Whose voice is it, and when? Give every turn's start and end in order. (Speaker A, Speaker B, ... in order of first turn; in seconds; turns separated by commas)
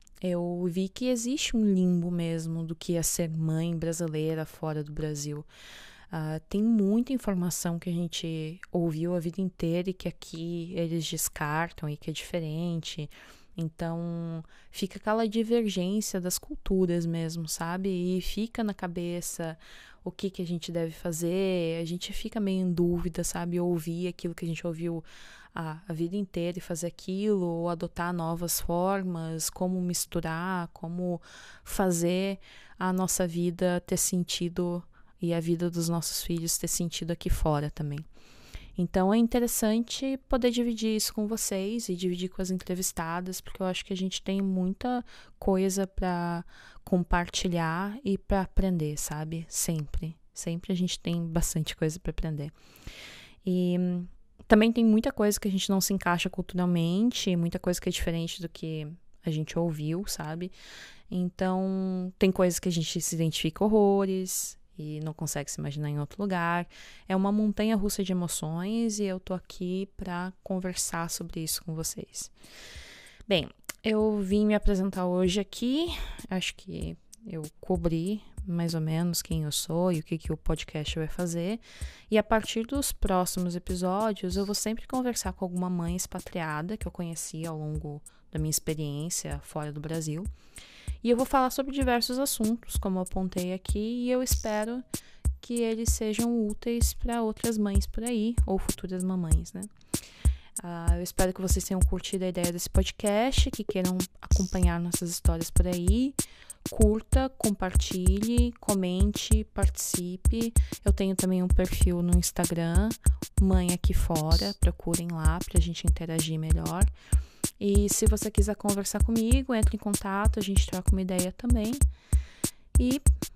Speaker A: 0.2-5.5, Speaker A: 6.1-38.1, Speaker A: 38.8-52.5, Speaker A: 53.4-60.5, Speaker A: 61.1-72.3, Speaker A: 73.3-90.3, Speaker A: 91.0-94.8, Speaker A: 95.4-99.7, Speaker A: 100.6-116.9, Speaker A: 117.6-121.8, Speaker A: 122.8-123.0